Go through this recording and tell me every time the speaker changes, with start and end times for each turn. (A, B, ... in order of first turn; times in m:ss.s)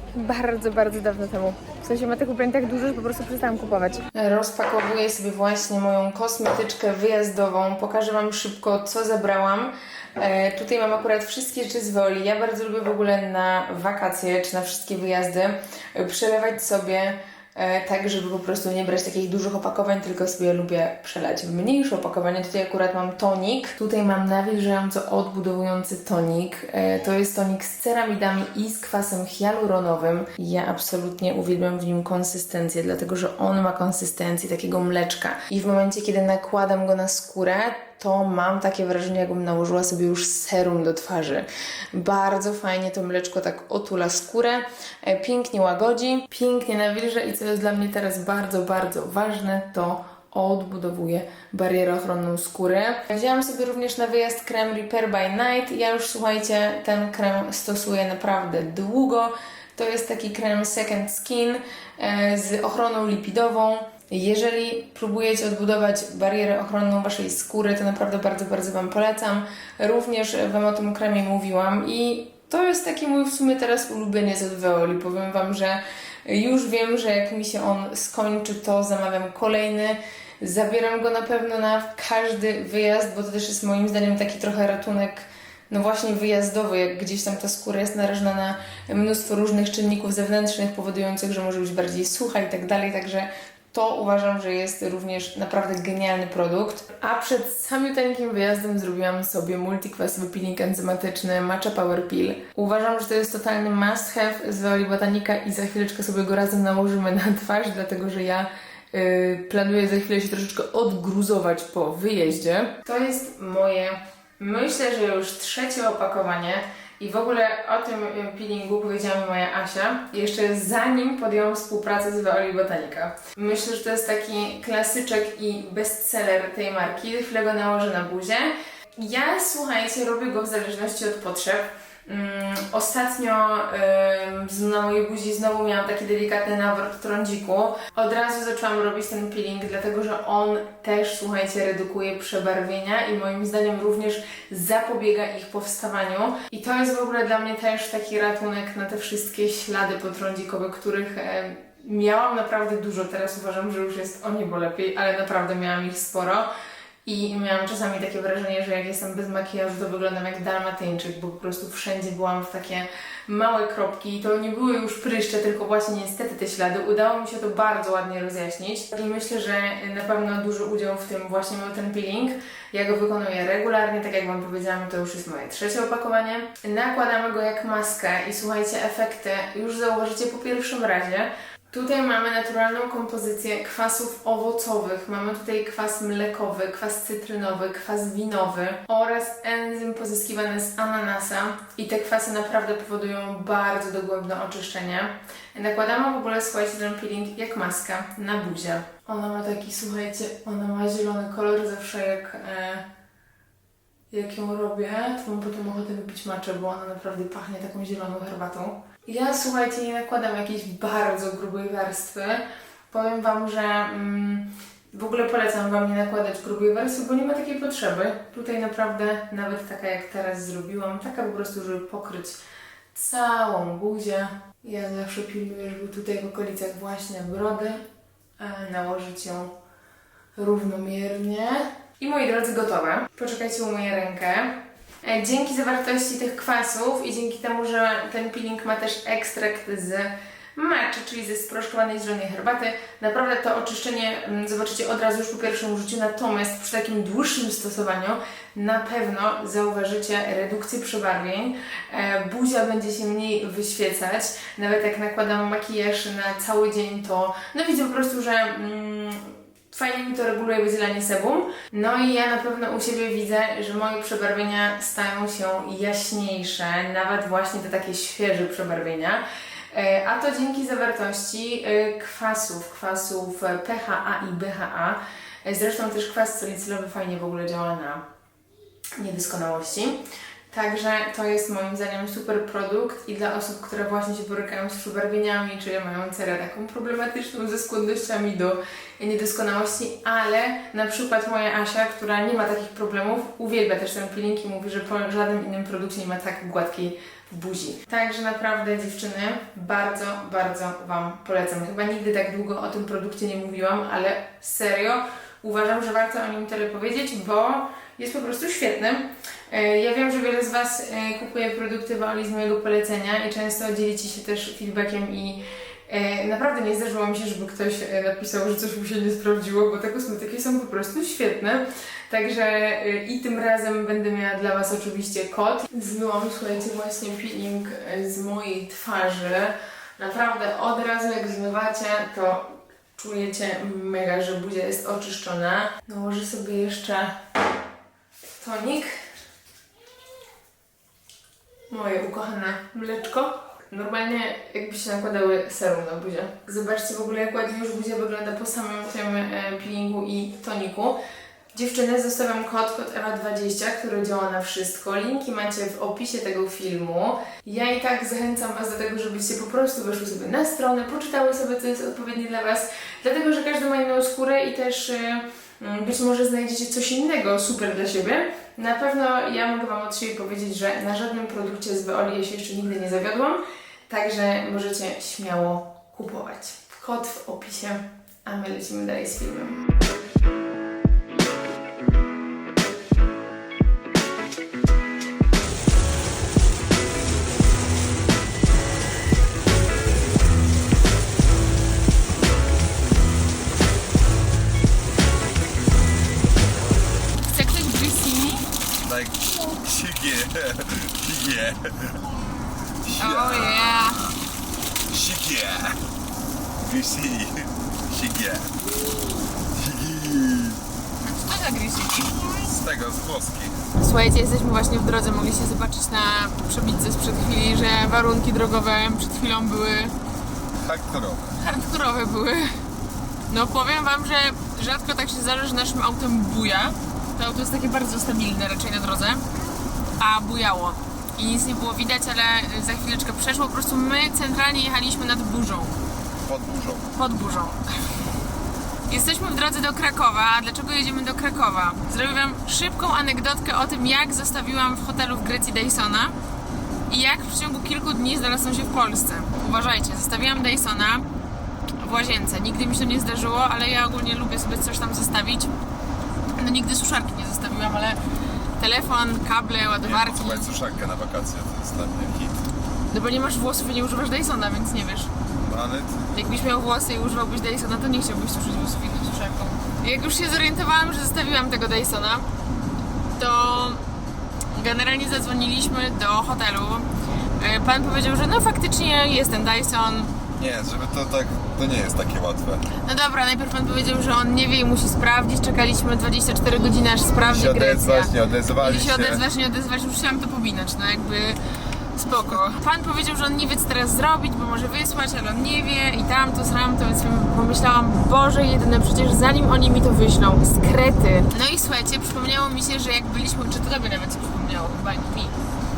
0:00.1-2:36.5 A
2:37.0-3:22.8 A
3:24.1-3:42.4 A
3:42.9-3:47.8 A
3:48.4-3:49.5 A
3:50.4-4:38.0 A
4:39.0-5:37.2 A
5:38.4-5:38.9 A
5:41.7-5:51.0 A
5:51.5-6:19.6 A
6:37.3-6:38.5 A
6:38.8-6:42.0 B
6:42.8-6:44.2 B
6:43.0-6:44.1 A
6:44.9-6:45.8 B
6:46.6-6:48.5 B
6:49.5-6:50.6 B
6:51.0-6:52.2 A
6:52.4-6:53.6 B
6:53.8-6:59.9 A
7:00.6-7:01.4 B
7:01.4-7:02.6 A
7:03.3-7:09.2 A
7:10.0-7:15.8 A
7:16.2-7:16.9 B
7:17.0-7:17.6 A
7:18.9-7:26.2 A
7:26.9-7:31.1 A
7:31.8-7:35.5 A
7:36.4-7:38.0 A
7:38.6-7:40.6 A
7:39.8-7:42.4 B
7:42.9-7:45.1 A
7:45.4-7:46.1 B
7:46.1-7:52.3 A
7:53.2-7:53.8 A
7:54.5-8:00.1 A
8:00.4-8:02.6 B
8:02.8-8:11.4 A
8:07.2-8:09.2 B
8:11.9-8:25.4 A